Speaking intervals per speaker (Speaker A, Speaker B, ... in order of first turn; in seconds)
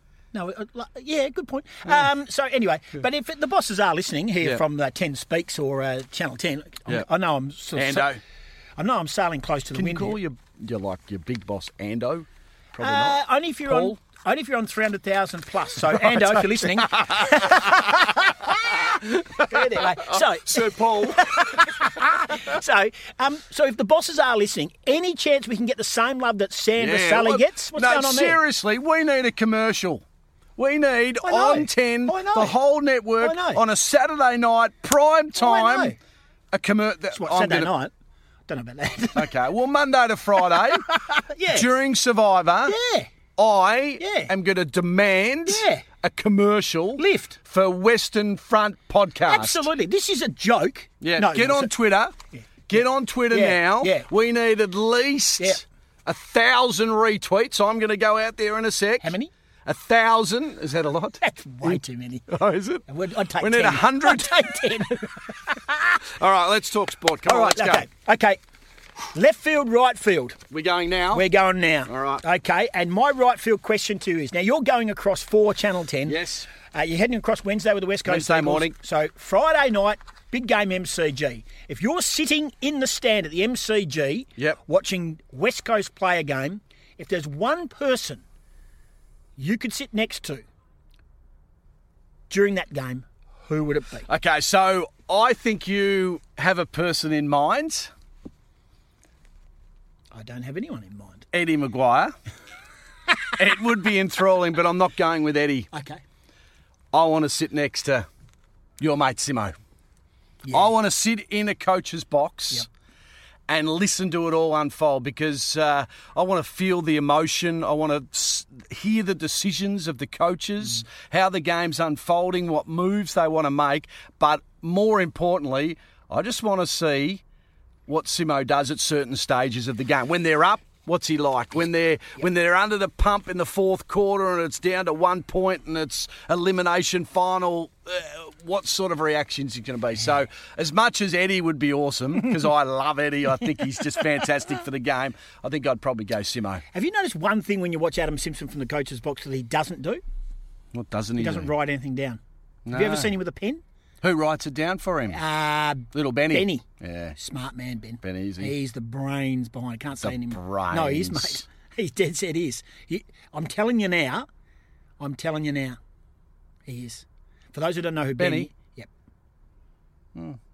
Speaker A: 0.3-8.1, 8.8-10.2, 12.8-28.4, 31.2-32.6, 33.2-33.6, 35.4-36.0, 37.1-37.9, 38.5-39.3, 40.5-41.7, 42.6-43.1, 44.0-44.3, 45.5-45.9, 47.0-47.4, 49.2-51.7, 52.4-54.1, 59.0-59.3, 61.2-62.3, 62.9-66.0, 67.2-68.4, 69.1-70.4, 71.1-88.2, 89.4-90.5, 92.3-94.1, 100.1-101.3, 105.7-106.0, 110.4-110.7, 146.7-150.0, 151.2-153.6, 155.1-156.7, 157.2-164.3, 165.0-165.8, 166.7-168.9
Speaker B: 7.8-8.2, 9.7-14.0, 15.9-22.4, 26.8-30.0, 30.6-35.9, 36.5-37.7, 39.1-40.9, 41.5-42.8, 43.4-49.7, 51.0-52.1, 52.7-59.1, 59.6-62.9, 63.4-64.5, 66.0-67.9, 70.5-71.3, 71.9-72.2, 76.1-76.5, 78.1-78.8, 94.1-97.9, 101.3-102.2, 103.4-105.7, 106.9-108.1, 108.8-109.5, 110.5-112.7, 113.5-127.2, 127.9-146.6, 150.7-151.5, 152.7-153.1, 154.0-155.2, 155.9-157.2, 158.0-158.5, 160.0-161.4, 168.2-168.5